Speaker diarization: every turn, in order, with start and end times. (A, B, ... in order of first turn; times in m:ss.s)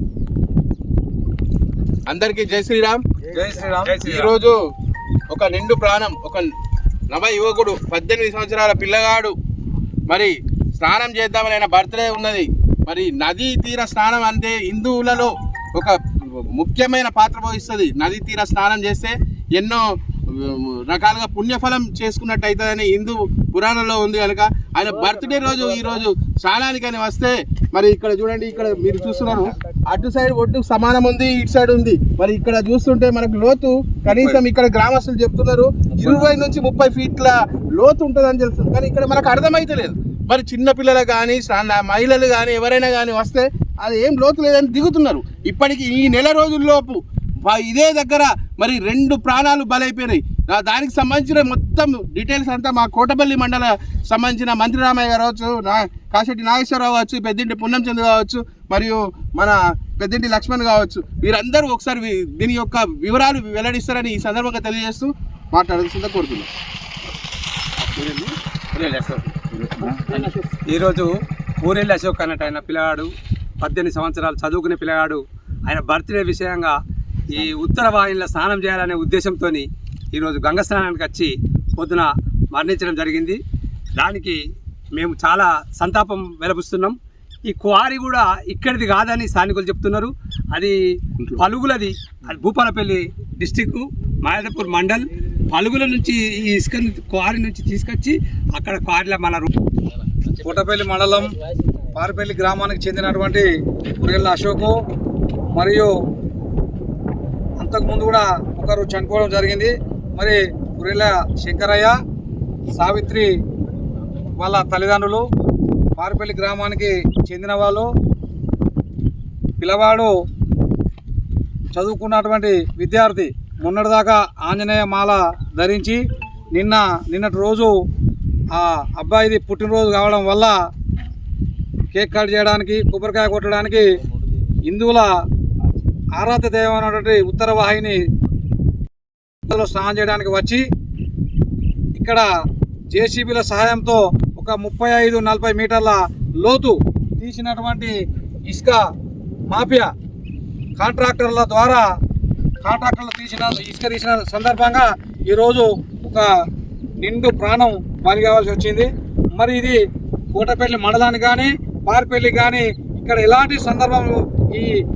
0:02.1-0:03.0 A
0:03.3-0:04.0 B
0:03.8-0:04.6 A
0:03.9-0:04.3 C
0:05.3-0:06.5 A
0:07.1-0:09.3 A
0:10.1-1:06.5 A
1:07.8-1:08.3 C
1:08.7-1:10.2 A
1:09.9-1:11.1 C
1:11.6-1:13.1 C
1:13.6-1:16.8 C
1:17.3-1:23.4 C
1:24.0-1:24.4 C
1:24.9-1:39.5 C
1:40.4-1:41.3 B
1:41.9-1:44.8 B
1:45.5-1:45.9 B
1:47.6-1:52.0 B
1:52.8-1:53.3 B
1:54.4-1:55.2 B
1:56.0-1:57.9 B
1:59.6-2:00.1 B
2:01.7-2:06.0 B
2:06.5-2:07.7 B
2:08.5-2:10.6 B
2:11.9-2:13.9 B
2:14.6-2:15.1 B
2:16.2-2:18.0 B
2:19.5-2:20.6 B
2:21.9-2:22.2 B
2:22.9-2:27.9 B
2:28.5-2:28.8 B
2:29.5-2:29.9 B
2:30.8-2:31.8 B
2:32.6-2:36.3 B
2:37.0-2:39.8 B
2:40.3-2:44.7 B